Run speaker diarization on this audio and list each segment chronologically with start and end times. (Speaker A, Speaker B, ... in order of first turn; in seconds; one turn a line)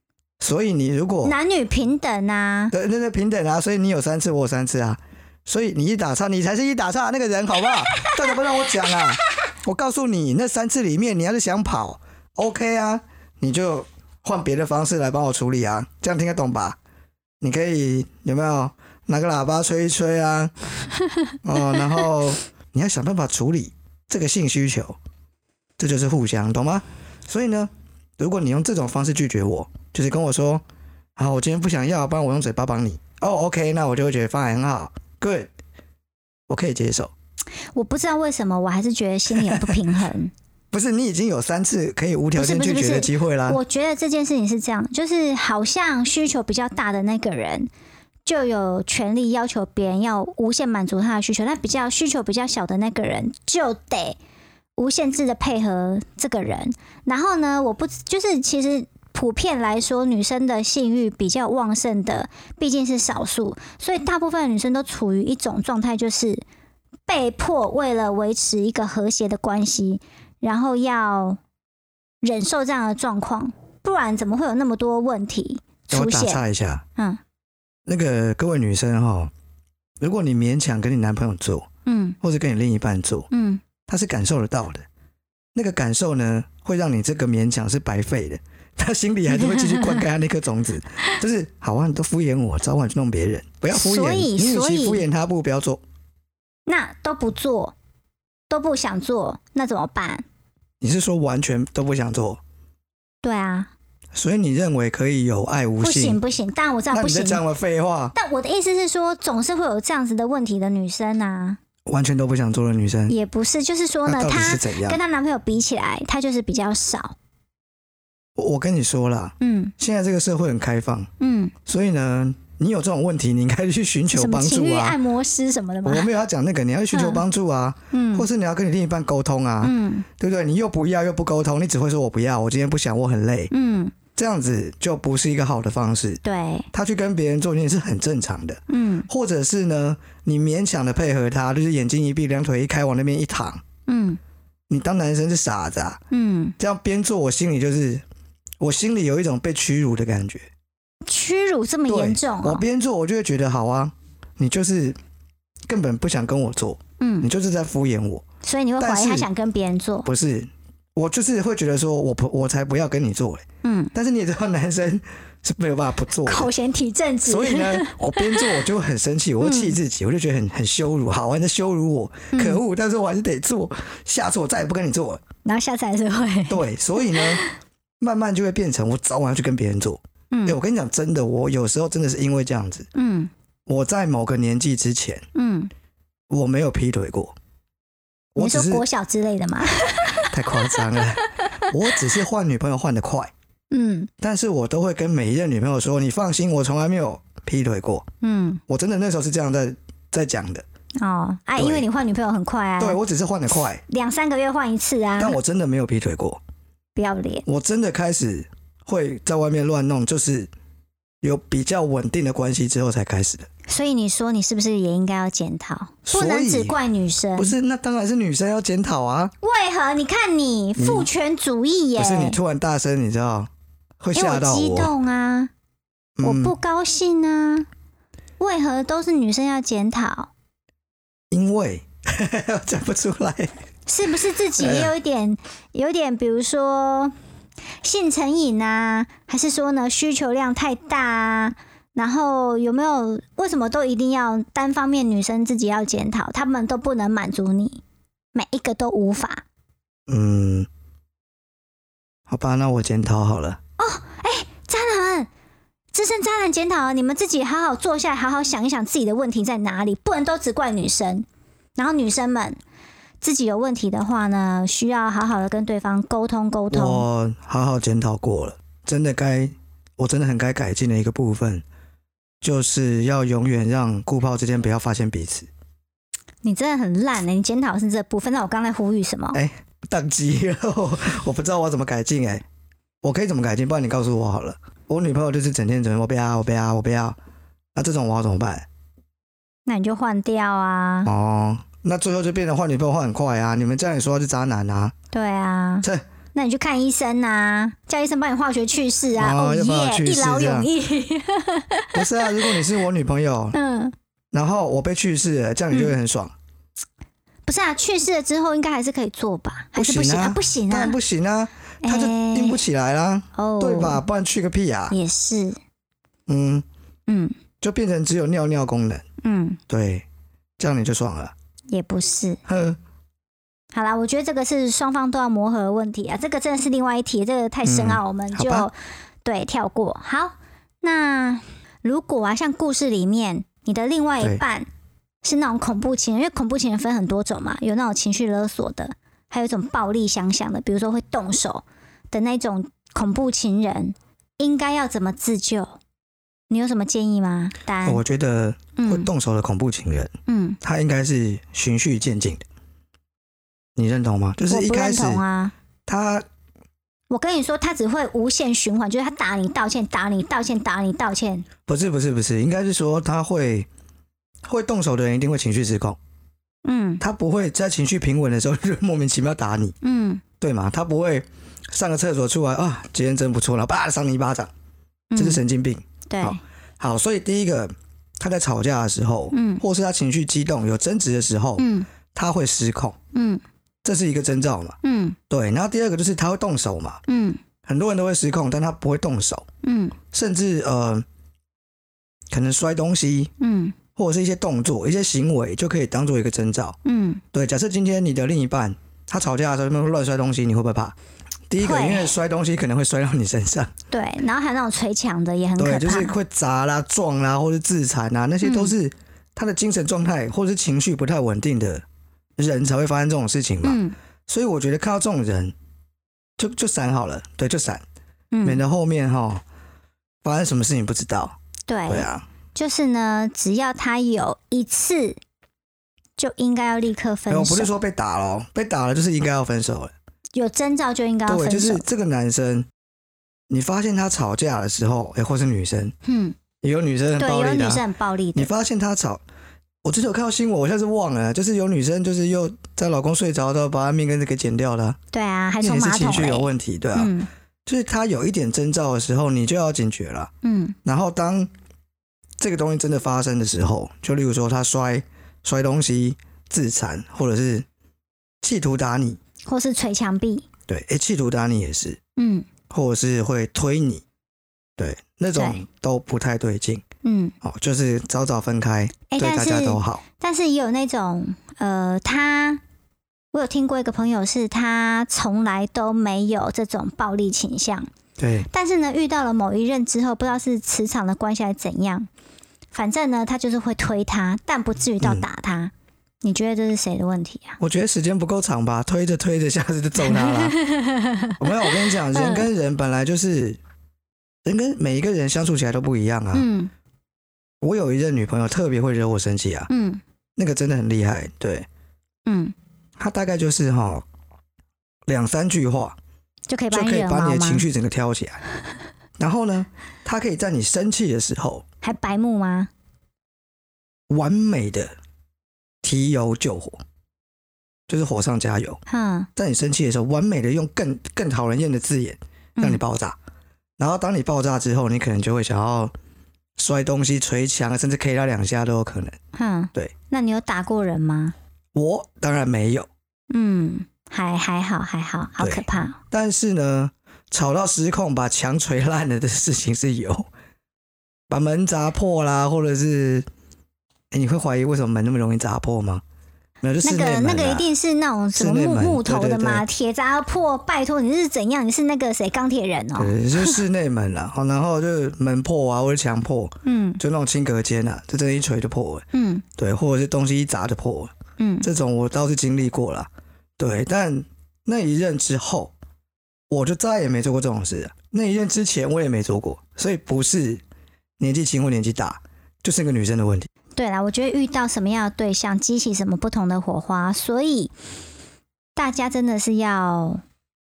Speaker A: 0.4-1.4
Speaker B: 1.2-2.7
Speaker A: 2.7-16.8
Speaker B: 7.9-9.0
Speaker A: 17.4-20.5
Speaker A: 21.4-25.0
Speaker A: 25.8-30.6
Speaker A: 31.2-35.5
Speaker A: 36.5-37.1
Speaker B: 37.8-40.3
Speaker A: 39.4-39.8
Speaker A: 40.7-43.6
Speaker B: 42.4-47.7
Speaker B: 48.3-54.2
Speaker B: 54.8-66.4
Speaker B: 67.1-71.4
Speaker B: 72.2-76.4
Speaker A: 75.9-76.8
Speaker A: 77.9-79.3
Speaker A: 80.0-81.7
Speaker B: 81.9-82.2
Speaker A: 82.2-83.3
Speaker B: 83.3-83.6
Speaker A: 83.9-84.8
Speaker A: 85.5-95.8
Speaker B: 89.3-90.0
Speaker B: 93.7-95.0
Speaker B: 96.7-97.7
Speaker B: 98.5-100.2
Speaker A: 100.8-102.4
Speaker B: 103.2-103.7
Speaker A: 104.1-106.2
Speaker B: 105.8-107.4
Speaker A: 106.9-108.1
Speaker B: 108.1-111.6
Speaker A: 111.9-113.2
Speaker B: 113.1-117.2
Speaker A: 114.1-115.0
Speaker A: 118.4-121.1
Speaker B: 119.4-119.7
Speaker B: 121.2-121.5
Speaker A: 121.7-125.0
Speaker B: 124.1-126.1
Speaker A: 125.8-133.5
Speaker B: 126.9-127.2
Speaker B: 127.9-128.3
Speaker B: 129.6-130.1
Speaker B: 133.5-134.0
Speaker A: 134.2-136.2
Speaker B: 136.2-136.7
Speaker A: 136.7-143.6
Speaker B: 138.7-139.1
Speaker B: 143.9-144.2
Speaker A: 144.7-146.0
Speaker B: 146.1-146.6
Speaker A: 146.6-148.0
Speaker A: 148.6-150.5
Speaker B: 151.1-152.6
Speaker A: 151.9-155.0
Speaker A: 155.7-158.2
Speaker B: 157.0-157.3
Speaker B: 158.4-160.1
Speaker A: 158.8-159.3
Speaker A: 160.1-166.5
Speaker B: 163.6-163.9
Speaker B: 166.3-168.6
Speaker A: 167.2-175.2
Speaker B: 169.4-169.8
Speaker B: 172.3-172.6
Speaker B: 175.4-177.5
Speaker A: 176.5-177.4
Speaker A: 178.0-182.9
Speaker B: 180.3-180.6
Speaker B: 182.9-183.3
Speaker A: 183.7-185.2
Speaker B: 185.3-185.7
Speaker A: 186.3-187.3
Speaker A: 188.3-188.8
Speaker B: 188.4-191.7
Speaker A: 190.2-193.3
Speaker B: 193.7-194.1
Speaker A: 194.2-198.1
Speaker B: 198.2-198.6
Speaker A: 198.7-200.7
Speaker B: 201.0-203.0
Speaker A: 201.6-201.9
Speaker A: 202.8-203.8
Speaker B: 203.9-205.4
Speaker A: 205.2-206.4
Speaker B: 207.0-207.5
Speaker A: 207.5-210.5
Speaker A: 211.2-213.5
Speaker B: 213.7-217.6
Speaker A: 216.1-216.8
Speaker A: 217.4-219.3
Speaker B: 219.4-222.4
Speaker A: 220.8-221.1
Speaker A: 222.0-224.9
Speaker B: 224.2-225.5
Speaker A: 226.2-226.6
Speaker B: 226.2-227.7
Speaker B: 228.4-230.3
Speaker A: 231.3-233.5
Speaker B: 233.9-237.1
Speaker A: 234.6-234.9
Speaker B: 237.8-247.8
Speaker B: 248.3-249.4
Speaker A: 250.1-250.7
Speaker A: 252.3-253.6
Speaker B: 253.8-255.3
Speaker B: 255.9-261.3
Speaker B: 261.8-262.6
Speaker B: 263.2-267.1
Speaker A: 266.7-271.6
Speaker A: 272.4-275.5
Speaker B: 276.4-279.4
Speaker A: 279.3-282.4
Speaker A: 283.0-287.2
Speaker A: 287.8-288.7
Speaker B: 289.7-291.1
Speaker A: 291.1-294.9
Speaker B: 295.1-302.5
Speaker A: 299.2-300.7
Speaker A: 301.9-303.6
Speaker B: 303.5-303.9
Speaker A: 304.3-306.3
Speaker B: 307.5-311.0
Speaker A: 309.8-314.9
Speaker B: 311.8-312.6
Speaker B: 313.4-314.0
Speaker B: 314.9-315.6
Speaker A: 316.3-316.6
Speaker B: 317.1-317.4
Speaker A: 317.6-319.0
Speaker B: 319.2-319.6
Speaker A: 319.7-320.1
Speaker A: 320.6-321.3
Speaker B: 321.7-322.4
Speaker A: 322.5-322.8
Speaker B: 323.7-328.7
Speaker A: 327.6-328.7
Speaker B: 329.2-334.7
Speaker B: 335.2-345.8
Speaker B: 346.5-348.0
Speaker A: 347.8-352.4
Speaker B: 348.8-349.1
Speaker B: 350.3-350.6
Speaker A: 353.8-355.2
Speaker B: 354.5-355.5
Speaker A: 355.9-356.2
Speaker B: 357.1-361.5
Speaker A: 361.7-363.7
Speaker A: 364.4-366.0
Speaker B: 366.6-367.0
Speaker A: 367.0-369.8
Speaker B: 369.8-370.2
Speaker A: 370.4-374.5
Speaker B: 375.1-375.4
Speaker A: 375.2-383.0
Speaker B: 376.1-376.4
Speaker B: 379.3-379.6
Speaker B: 381.6-381.9
Speaker B: 383.1-383.4
Speaker A: 383.8-384.8
Speaker B: 384.8-385.2
Speaker A: 385.3-387.0
Speaker B: 387.1-387.4
Speaker A: 387.6-389.4
Speaker B: 389.6-390.0
Speaker A: 390.1-391.1
Speaker A: 392.3-393.3
Speaker B: 393.4-393.8
Speaker A: 394.0-396.8
Speaker B: 396.9-397.2
Speaker A: 397.3-401.0
Speaker A: 401.5-403.7
Speaker B: 401.6-402.1
Speaker B: 403.9-406.1
Speaker A: 405.6-411.8
Speaker B: 408.4-408.7
Speaker A: 412.4-415.5
Speaker B: 413.6-413.9
Speaker A: 416.4-417.8
Speaker B: 418.3-418.6
Speaker A: 418.4-419.4
Speaker A: 420.2-421.4
Speaker B: 421.7-425.2
Speaker A: 421.9-422.3
Speaker B: 426.2-427.7
Speaker A: 427.3-429.9
Speaker B: 430.4-431.8
Speaker A: 431.3-432.7
Speaker A: 433.5-435.9
Speaker B: 436.0-436.4
Speaker A: 436.6-437.8
Speaker B: 437.2-438.5
Speaker A: 438.4-439.2
Speaker A: 439.8-445.0
Speaker B: 445.1-447.3
Speaker A: 445.6-447.1
Speaker A: 447.7-450.3
Speaker B: 450.4-450.8
Speaker A: 450.9-451.5
Speaker A: 452.4-457.7
Speaker A: 458.4-459.2
Speaker B: 459.5-460.5
Speaker A: 460.7-462.0
Speaker B: 462.2-462.5
Speaker A: 462.7-464.0
Speaker A: 464.8-466.8
Speaker B: 465.4-465.6
Speaker B: 467.0-467.4
Speaker A: 467.4-470.0
Speaker B: 469.1-472.6
Speaker B: 473.3-477.9
Speaker A: 478.2-478.5
Speaker B: 478.5-482.1
Speaker B: 482.7-485.7
Speaker B: 486.2-487.6
Speaker A: 487.6-490.6
Speaker B: 490.0-492.5
Speaker A: 491.4-493.6
Speaker A: 494.4-496.5
Speaker B: 496.3-496.7
Speaker A: 497.6-499.7
Speaker B: 499.7-500.0
Speaker A: 500.4-501.7
Speaker B: 502.3-502.6
Speaker A: 503.0-504.0
Speaker A: 505.1-506.0
Speaker B: 506.5-507.7
Speaker A: 506.7-508.4
Speaker A: 509.2-511.6
Speaker B: 511.8-512.7
Speaker A: 514.1-514.9
Speaker A: 515.8-516.8
Speaker A: 517.9-518.8
Speaker B: 518.9-519.3
Speaker A: 519.4-523.2
Speaker A: 523.8-525.9
Speaker A: 526.6-529.2
Speaker B: 529.4-531.4
Speaker A: 531.8-532.9
Speaker B: 533.3-536.0
Speaker A: 535.4-540.3
Speaker A: 541.3-543.3
Speaker A: 544.1-546.0
Speaker A: 546.6-547.7
Speaker B: 546.8-553.6
Speaker A: 548.4-549.6
Speaker A: 553.0-559.1
Speaker B: 556.6-557.0
Speaker B: 559.1-559.5
Speaker A: 559.6-565.7
Speaker B: 561.4-561.7
Speaker A: 566.5-570.6
Speaker A: 571.2-573.5
Speaker B: 573.8-577.7
Speaker B: 578.8-580.2